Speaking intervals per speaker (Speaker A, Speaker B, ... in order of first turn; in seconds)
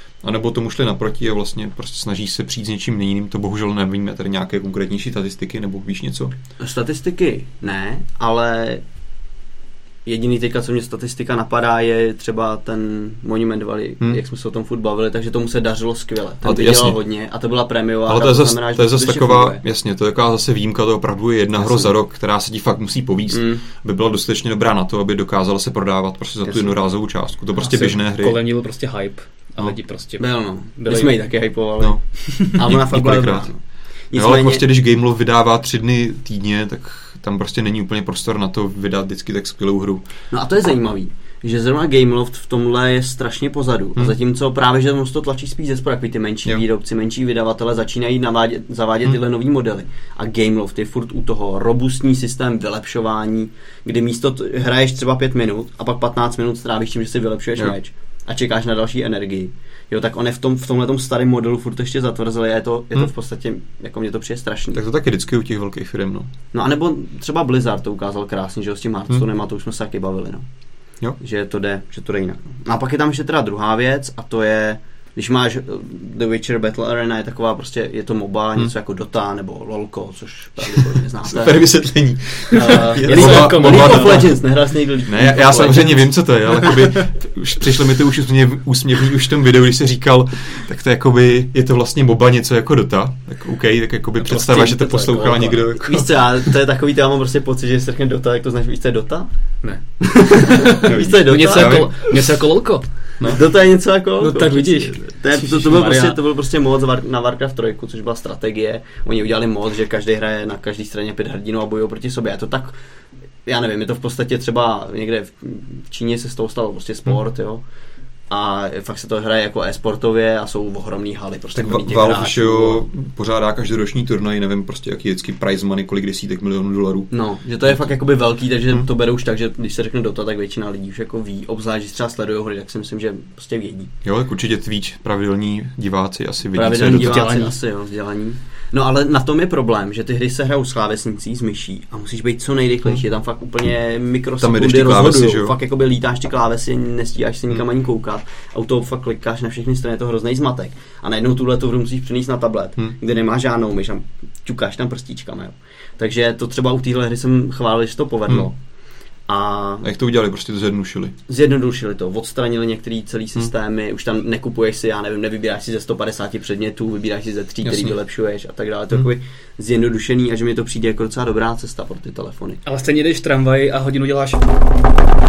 Speaker A: 0.2-6.3, 16.4-17.0, 18.1-28.4, 31.8-40.0, 64.7-66.3, 81.2-84.3, 85.1-96.5, 100.8-102.0, 121.6-127.1, 127.6-128.0, 134.0-137.2, 144.4-145.6, 159.8-161.1, 167.6-167.9
Speaker B: 6.6-8.8, 10.1-19.6, 21.6-21.9, 23.3-23.6, 26.4-26.8, 29.6-34.6, 40.3-64.8, 66.5-70.5, 71.2-81.7, 82.5-86.8, 94.2-99.3, 100.0-102.1, 103.2-112.8, 113.4-117.6, 118.3-122.8, 127.1-133.9, 136.5-158.6, 159.3-159.8, 161.3-172.6
Speaker C: 27.6-31.5, 82.5-84.3, 94.5-95.4, 99.6-103.4, 104.2-106.2, 121.5-122.3, 136.9-137.6, 172.6-174.8